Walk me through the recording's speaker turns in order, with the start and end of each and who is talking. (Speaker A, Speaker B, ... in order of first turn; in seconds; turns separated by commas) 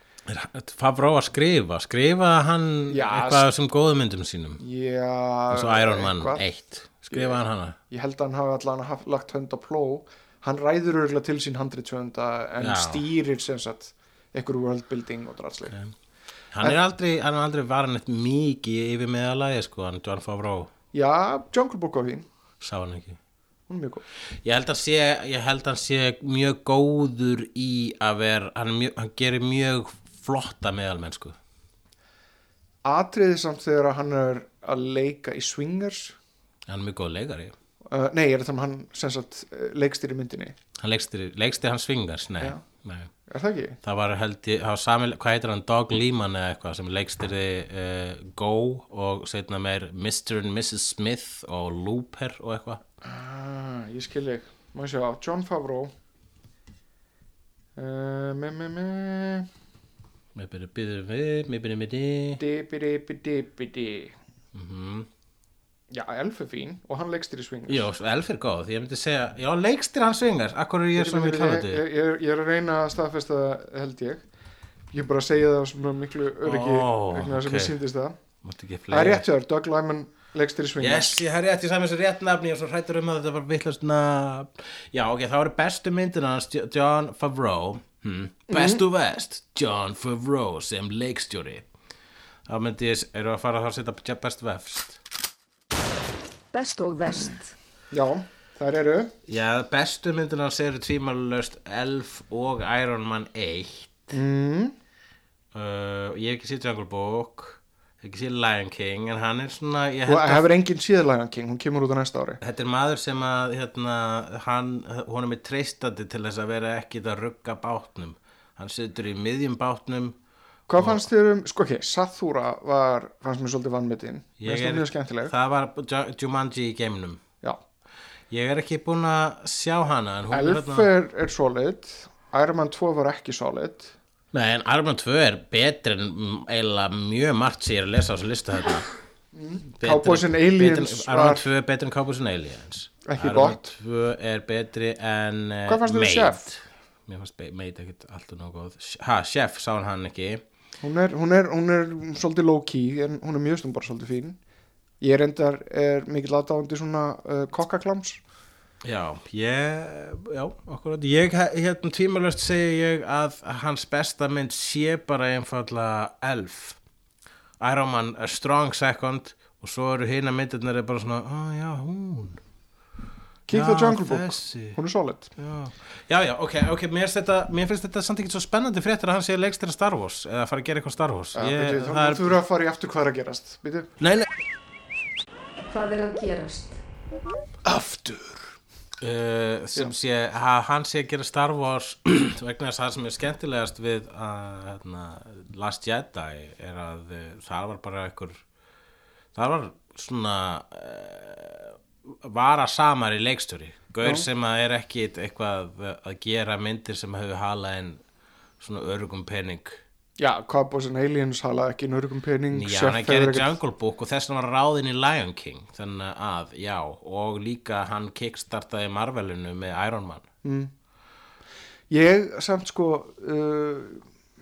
Speaker A: 0.3-4.6, Speaker B: 2.9-3.5, Speaker B: 4.6-6.4, Speaker A: 5.5-7.8, Speaker B: 7.1-15.8, Speaker A: 12.6-13.0, Speaker A: 16.5-20.7, Speaker B: 20.9-22.3, Speaker A: 22.6-23.2, Speaker B: 23.7-24.0, Speaker A: 24.4-31.4, Speaker B: 32.9-36.2, Speaker A: 36.7-37.5, Speaker B: 37.9-40.5, Speaker A: 40.8-43.1, Speaker B: 43.3-43.8, Speaker A: 43.8-52.8, Speaker B: 53.0-55.9, Speaker B: 57.8-59.5, Speaker A: 60.4-62.4, Speaker B: 62.4-64.2, Speaker A: 64.5-65.1, Speaker B: 65.9-67.9, Speaker A: 67.7-71.8, Speaker B: 71.0-74.2, Speaker B: 74.9-78.2, Speaker A: 76.4-77.8, Speaker A: 78.4-79.3, Speaker B: 78.9-81.2, Speaker A: 80.8-91.7, Speaker B: 88.5-88.8, Speaker A: 92.5-95.0, Speaker C: 96.5-97.5, Speaker B: 97.9-99.1, Speaker A: 99.3-104.0, Speaker B: 104.1-104.8, Speaker A: 105.5-110.5, Speaker B: 110.1-112.4, Speaker A: 112.4-120.2, Speaker B: 120.7-125.3, Speaker A: 120.8-121.0, Speaker A: 124.4-127.2, Speaker A: 128.3-130.9, Speaker B: 130.3-133.9, Speaker A: 134.3-138.9, Speaker B: 139.3-141.5, Speaker A: 139.8-150.4, Speaker B: 143.1-143.6, Speaker B: 145.7-146.4, Speaker B: 150.8-154.4, Speaker B: 155.0-158.2, Speaker A: 158.8-166.8, Speaker A: 167.6-172.4, Speaker B: 173.5-175.3, Speaker A: 173.5-174.8, Speaker A: 175.4-182.3, Speaker B: 181.3-183.9, Speaker A: 184.0-184.3, Speaker C: 185.7-186.8, Speaker B: 187.7-188.6, Speaker A: 189.0-198.4, Speaker A: 199.3-208.0, Speaker A: 208.6-209.8, Speaker B: 210.2-213.5, Speaker A: 212.5-220.3, Speaker B: 220.4-220.7, Speaker B: 221.9-224.1